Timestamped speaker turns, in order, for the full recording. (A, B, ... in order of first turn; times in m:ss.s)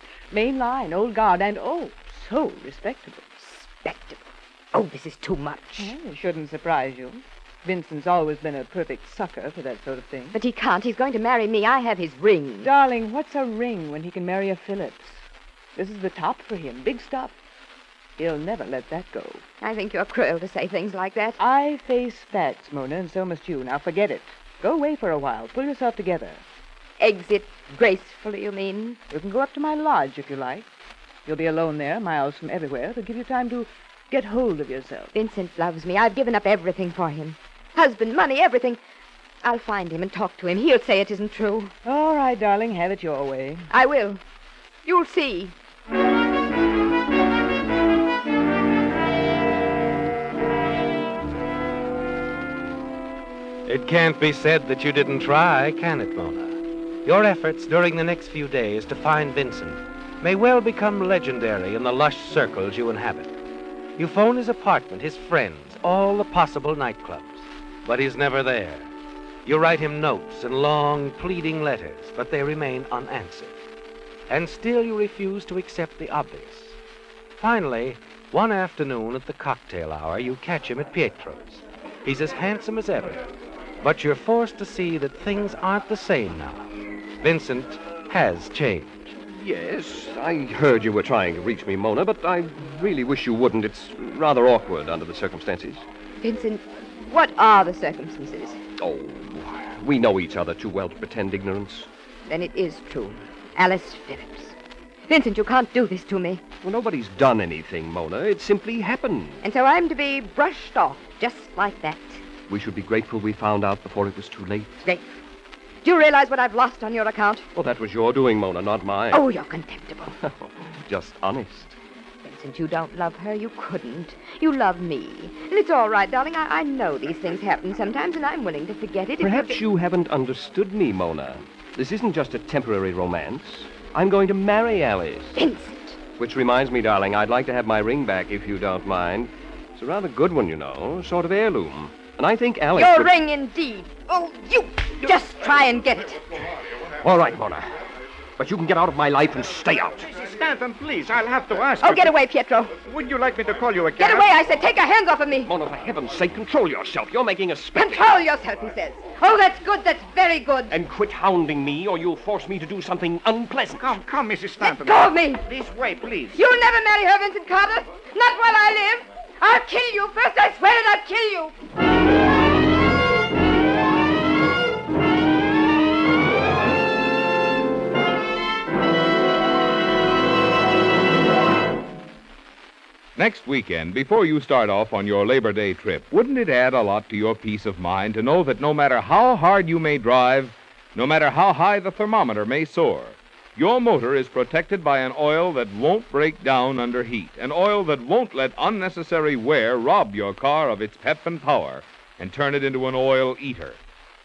0:00.3-0:03.4 A
0:03.5-0:05.9 B
0:05.8-0:10.4 A
0:10.3-0:12.7 B
0:12.6-0:15.2 A
0:15.8-0:17.4 A
0:18.2-0:19.4 A
0:19.6-0:21.4 B
0:21.4-0:26.4 A
0:27.0-0:29.0 B
0:29.1-0:30.7 A
0:31.2-0:35.1 A
0:35.1-0:38.8 B
0:39.4-0:41.7 B
0:41.8-0:43.7 A
0:43.7-0:44.2 B
0:44.8-0:45.5 B
0:53.6-1:03.3 C
1:04.0-1:08.9 C
1:09.4-1:13.6 C
1:14.3-1:16.8 C
1:17.4-1:23.3 C
1:23.8-1:26.7 C
1:27.2-1:29.2 C
1:29.3-1:35.8 D
1:36.2-1:38.6 B
1:38.8-1:41.9 D
1:42.2-1:44.6 B
1:45.1-1:46.4 B
1:46.6-1:49.4 D
1:49.4-1:52.2 B
1:52.5-1:54.8 D
1:54.8-1:55.2 B
1:55.8-1:57.5 B
1:57.5-1:59.2 D
1:59.1-2:00.2 B
2:00.2-2:01.8 D
2:02.2-2:09.6 B
2:09.2-2:15.4 D
2:15.4-2:16.0 B
2:16.2-2:23.1 D
2:22.7-2:26.5 B
2:27.0-2:27.8 D
2:28.4-2:30.1 D
2:30.1-2:32.1 E
2:31.8-2:32.8 B
2:32.8-2:34.3 E
2:34.0-2:35.5 B
2:35.4-2:38.2 D
2:37.7-2:40.8 B
2:40.7-2:43.9 D
2:43.8-2:46.4 E
2:44.6-2:45.4 B
2:46.3-2:51.5 B
3:03.2-3:23.8 F